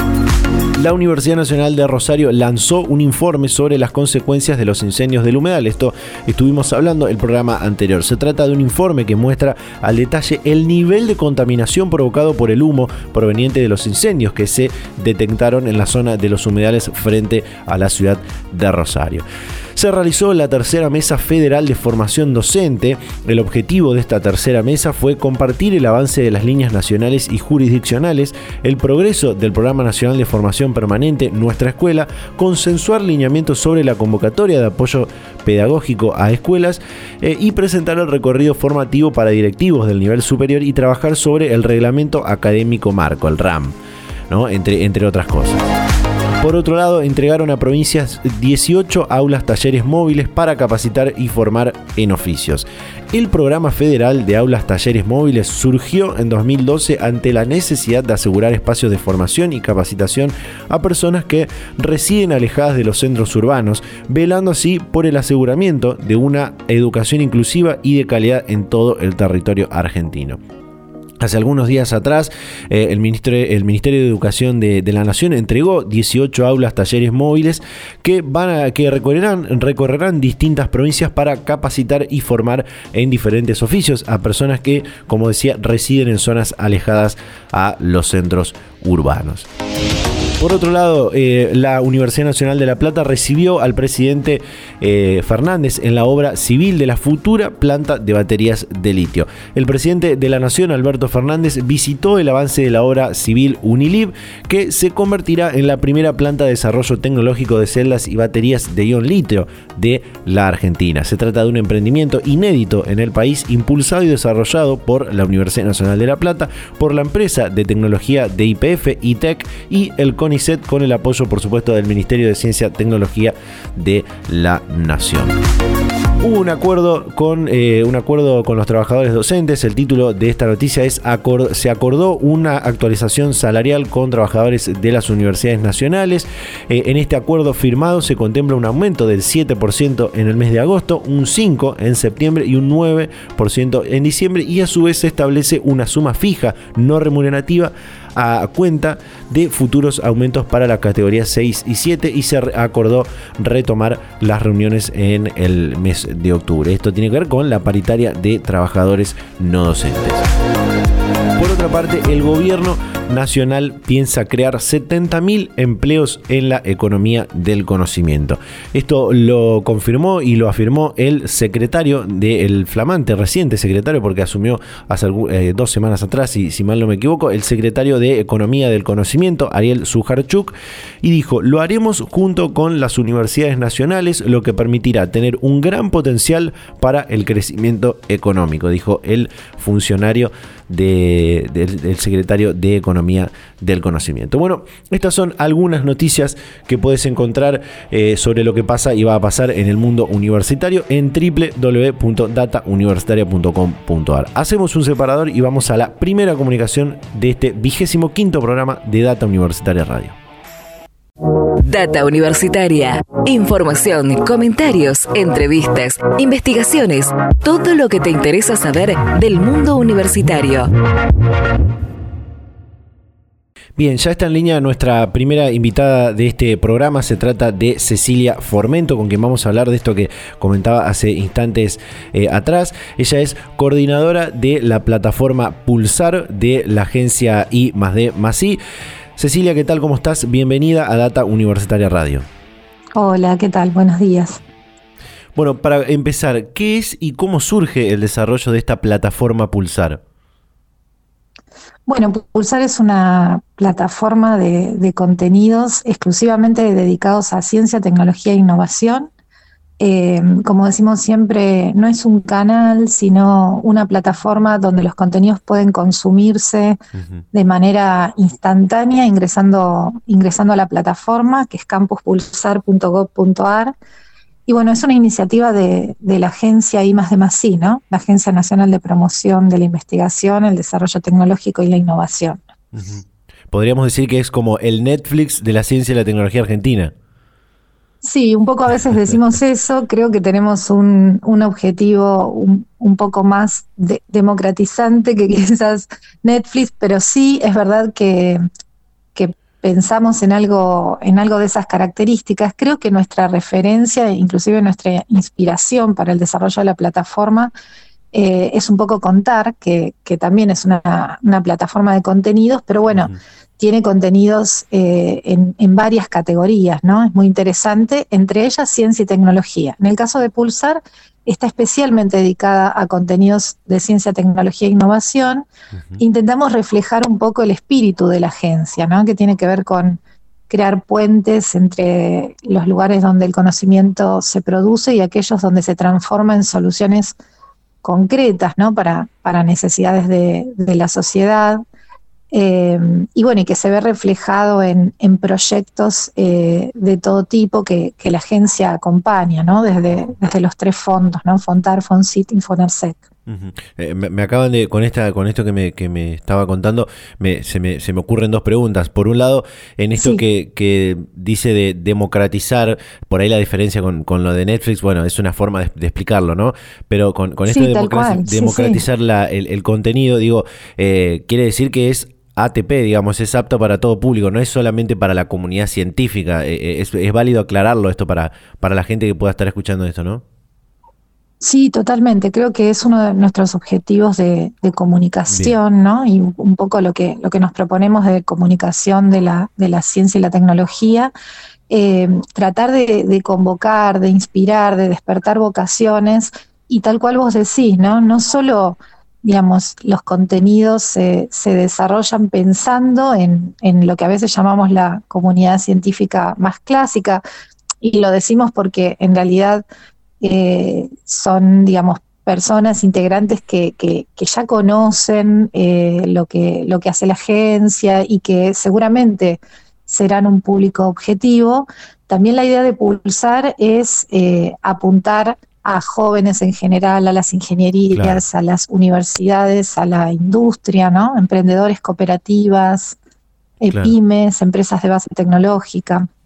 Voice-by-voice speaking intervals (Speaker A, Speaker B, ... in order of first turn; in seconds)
Speaker A: 0.8-43.8, 44.3-45.7, 46.4-70.4, 71.2-89.5, 90.4-125.4, 126.2-160.3, 161.4-210.2, 223.8-238.6, 239.2-242.3, 245.3-250.0, 282.7-286.9, 312.9-313.2, 353.3-380.2, 385.3-385.6, 427.9-428.2, 433.7-433.9
Speaker B: 211.6-220.7
Speaker C: 242.9-244.4, 251.9-259.1, 259.8-266.8, 267.3-273.7, 274.5-282.4, 288.0-298.4, 299.1-307.5, 308.1-325.5, 326.0-337.2, 337.8-341.6, 342.3-353.0, 360.0-360.2, 367.5-368.8, 381.4-391.1, 391.7-407.2, 407.8-409.6, 410.2-433.0, 433.6-436.1